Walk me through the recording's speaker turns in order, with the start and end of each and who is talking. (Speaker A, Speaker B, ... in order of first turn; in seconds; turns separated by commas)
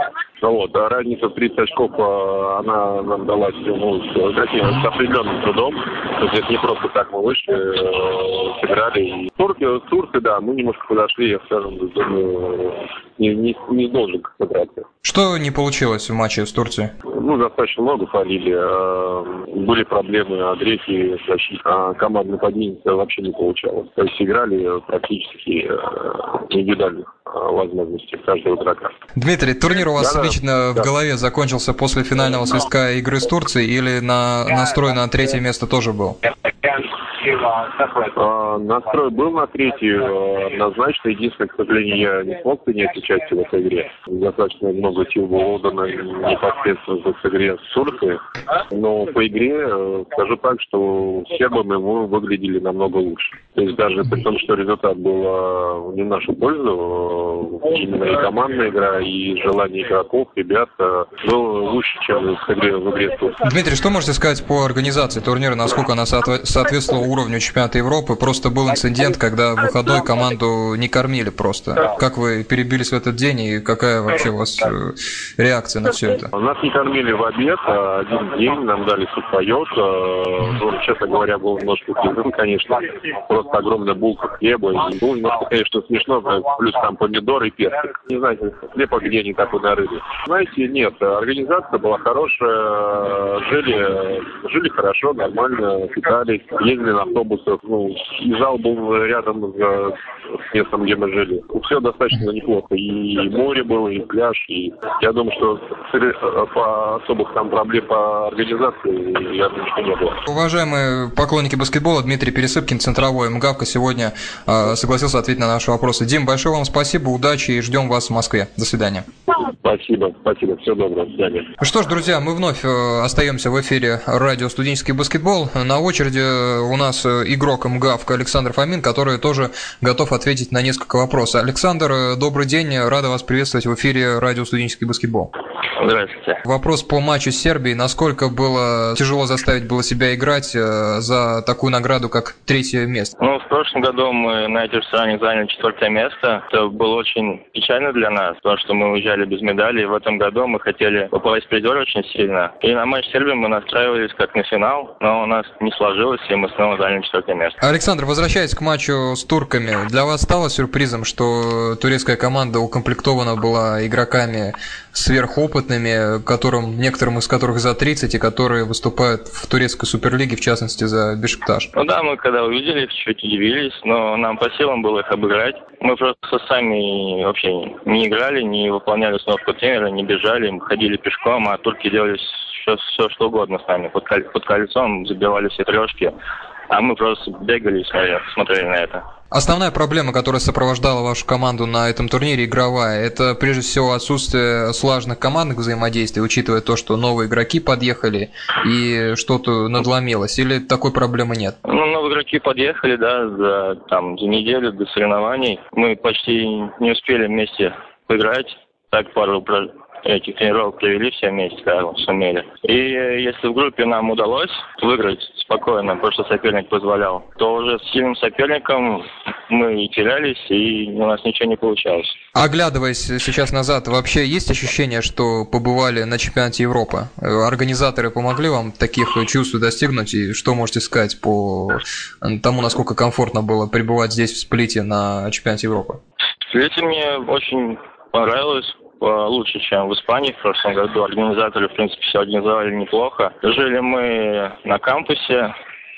Speaker A: 0.4-14.9, Speaker B: 15.0-16.9, Speaker A: 17.1-29.0, Speaker B: 29.1-36.2, Speaker A: 38.0-63.4, Speaker B: 63.4-76.3, Speaker A: 76.3-110.2, Speaker B: 110.3-119.0, Speaker A: 119.6-121.5, Speaker B: 121.6-135.3, Speaker C: 135.8-136.4, Speaker B: 136.4-143.1, Speaker C: 143.2-157.6, Speaker B: 157.6-171.7, Speaker C: 171.7-186.1, Speaker C: 186.7-189.0, Speaker B: 189.3-201.6, Speaker C: 201.6-222.2, Speaker B: 222.3-236.0, Speaker C: 236.5-245.5